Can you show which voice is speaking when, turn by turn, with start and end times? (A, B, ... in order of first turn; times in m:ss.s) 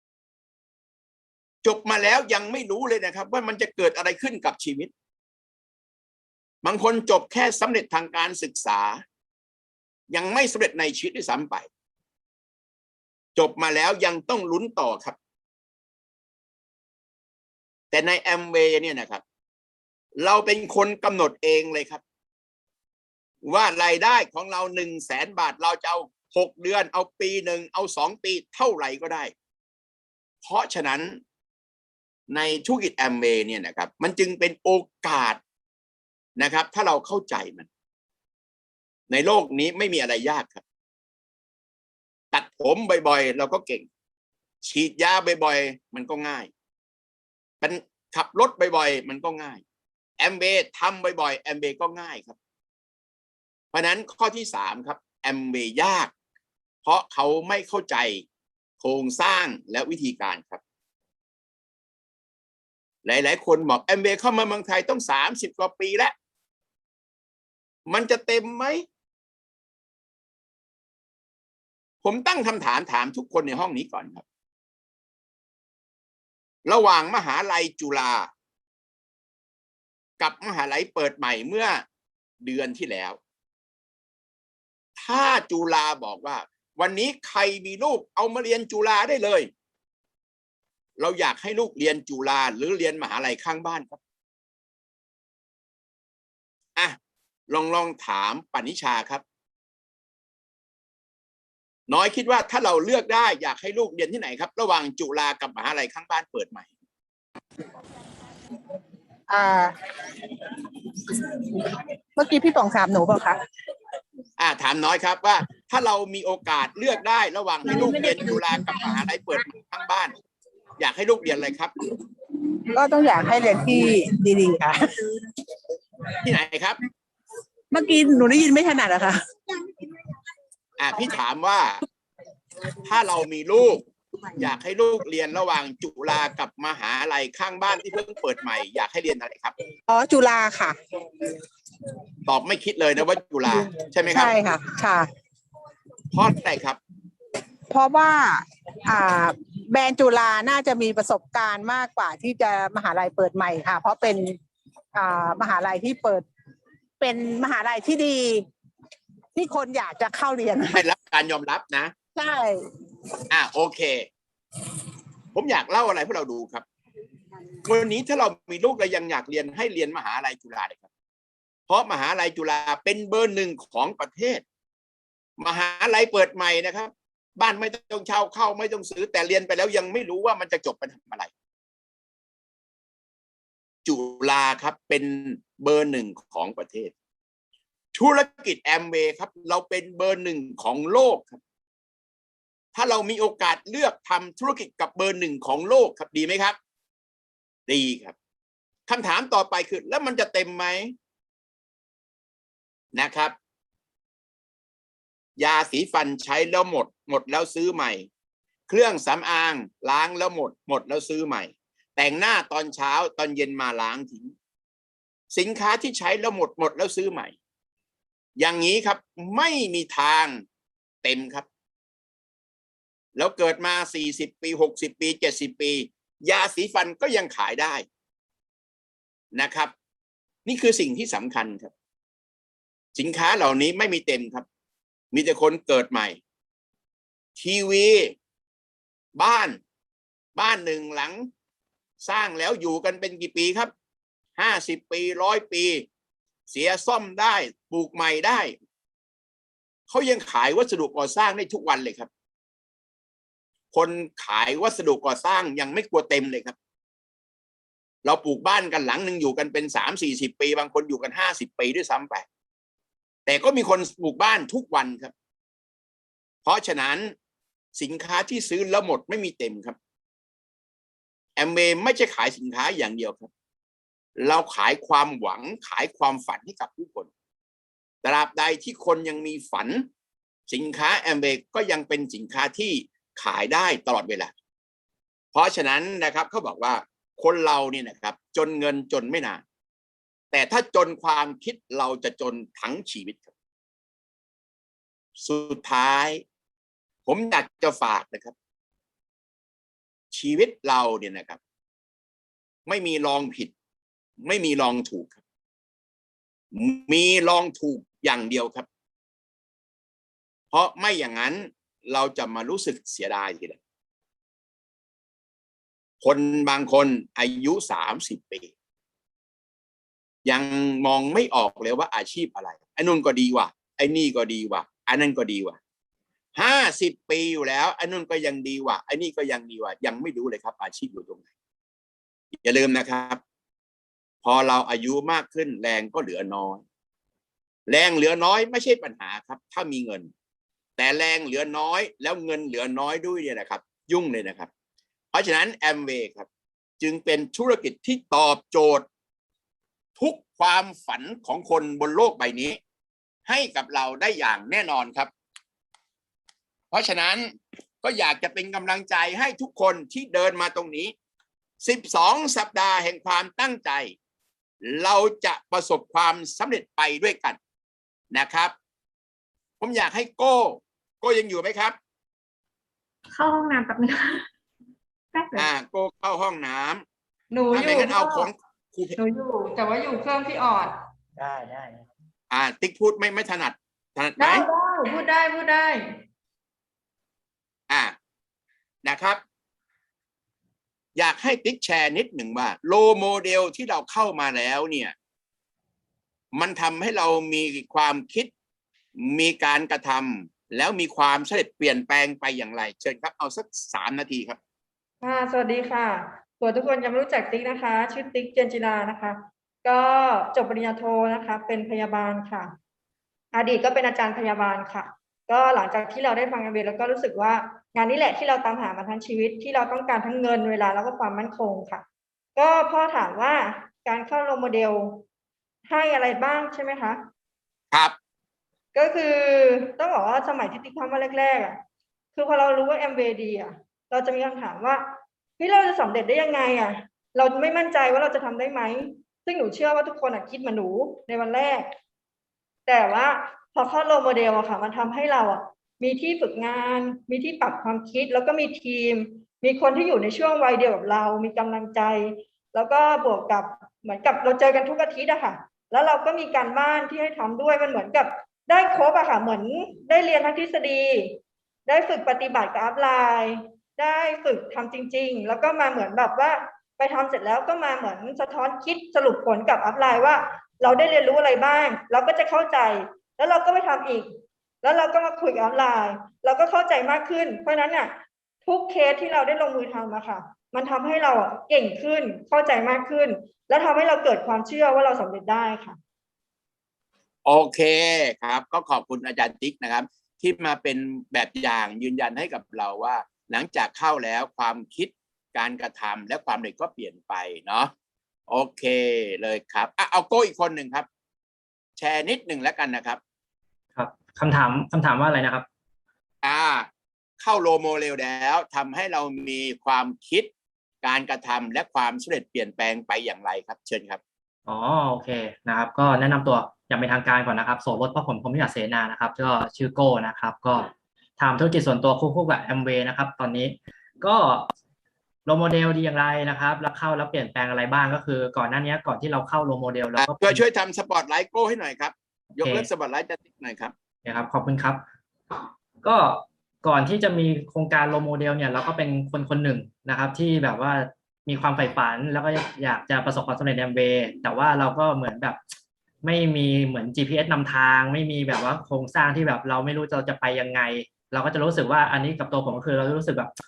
0:01.6-0:04.9 A
0:06.6-0:09.0 A
0:10.1-0:11.7 A
0:13.4-0:15.2 A
0:17.9-0:19.2 A
0:20.2-0:22.0 A
0:23.4-0:29.3 A
0:30.4-0:31.2 A
0:32.3-0:35.4 A
0:36.4-0:37.7 A
0:39.1-0:40.6 A
0:42.3-0:43.9 A
0:44.6-0:46.5 A
0:47.6-0:49.6 A
0:50.2-0:52.4 A
0:53.7-0:56.1 A
0:56.8-0:58.2 A
0:58.8-1:00.6 A
1:03.0-1:06.1 A
1:07.9-1:08.8 A
1:12.0-1:14.2 A
1:16.6-1:18.3 A
1:20.2-1:21.8 A
1:22.4-1:23.2 A
1:25.0-1:29.5 A
1:31.0-1:34.0 A
1:37.5-1:39.2 A
1:41.9-1:46.7 A
1:49.3-1:49.7 B
1:51.1-1:53.4 B
1:54.4-2:00.1 A
1:57.7-1:58.3 B
2:00.8-2:01.7 A
2:02.6-2:04.9 B
2:06.2-2:06.8 A
2:07.7-2:09.2 B
2:10.8-2:11.8 A
2:12.8-2:13.8 A
2:14.4-2:19.6 A
2:19.9-2:20.8 B
2:22.2-2:24.3 A
2:24.1-2:25.1 B
2:26.1-2:26.8 A
2:27.7-2:34.4 B
2:34.9-2:36.3 B
2:37.0-2:38.4 B
2:39.3-2:40.8 B
2:40.7-2:41.9 A
2:42.2-2:42.6 B
2:43.3-2:44.1 A
2:45.3-2:46.6 A
2:47.6-2:50.8 A
2:51.7-2:54.4 A
2:55.4-3:01.3 A
3:03.8-3:06.9 A
3:07.9-3:11.4 A
3:12.7-3:16.6 A
3:17.7-3:18.1 A
3:18.9-3:20.9 A
3:22.9-3:23.3 A
3:25.4-3:28.1 A
3:28.7-3:34.3 A
3:35.3-3:37.3 A
3:38.4-3:40.4 A
3:41.0-3:41.4 A
3:43.2-3:47.8 A
3:49.3-3:49.7 A
3:50.4-3:51.7 A
3:52.9-3:54.4 A
3:55.1-3:56.2 A
3:57.4-3:58.1 A
3:59.1-3:59.6 A
4:00.3-4:01.3 A
4:02.0-4:03.7 A
4:04.4-4:05.8 A
4:06.5-4:08.5 A
4:09.9-4:12.1 A
4:13.7-4:16.5 A
4:18.0-4:22.2 A
4:23.2-4:25.1 A
4:26.4-4:27.1 A
4:27.7-4:29.8 A
4:31.4-4:33.3 A
4:34.2-4:37.1 A
4:38.0-4:39.9 A
4:40.5-4:44.3 A
4:45.3-4:49.4 A
4:50.3-4:53.3 A
4:55.2-4:56.2 A
4:57.0-4:58.3 A
5:00.1-5:01.4 A
5:02.6-5:03.5 A
5:04.2-5:05.2 A
5:06.5-5:08.6 A
5:10.5-5:13.6 A
5:16.0-5:18.5 A
5:20.2-5:25.6 A
5:26.4-5:31.2 A
5:32.4-5:33.2 A
5:34.2-5:36.6 A
5:37.7-5:40.1 A
5:40.8-5:44.5 A
5:45.1-5:46.3 A
5:46.8-5:48.8 A
5:50.0-5:52.6 A
5:53.2-5:55.1 A
5:56.7-5:57.3 A
5:57.8-6:00.9 A
6:01.6-6:03.9 A
6:04.6-6:07.4 A
6:08.1-6:08.5 A
6:09.6-6:11.8 A
6:13.1-6:14.2 C
6:15.1-6:15.4 C
6:15.4-6:16.8 A
6:17.3-6:18.3 C
6:17.5-6:19.0 A
6:19.0-6:20.8 C
6:22.3-6:24.5 A
6:24.2-6:25.8 C
6:27.7-6:27.9 A
6:28.8-6:29.2 A
6:31.0-6:34.9 A
6:36.3-6:38.3 A
6:39.0-6:44.4 A
6:45.0-6:52.5 C
6:53.3-7:01.8 C
7:02.4-7:05.0 C
7:05.7-7:07.0 C
7:08.7-7:11.6 C
7:12.1-7:14.8 C
7:15.4-7:21.7 C
7:22.6-7:41.1 C
7:41.6-7:54.1 C
7:54.6-8:05.8 C
8:07.2-8:17.7 A
8:18.3-8:20.9 A
8:21.8-8:23.0 A
8:23.8-8:25.4 D
8:26.2-8:26.7 A
8:27.2-8:30.3 A
8:30.8-8:34.0 A
8:34.5-8:44.5 D
8:45.2-8:50.4 D
8:50.0-8:53.7 A
8:52.4-8:52.7 D
8:54.0-8:54.8 D
8:55.8-9:05.4 D
9:06.0-9:13.3 D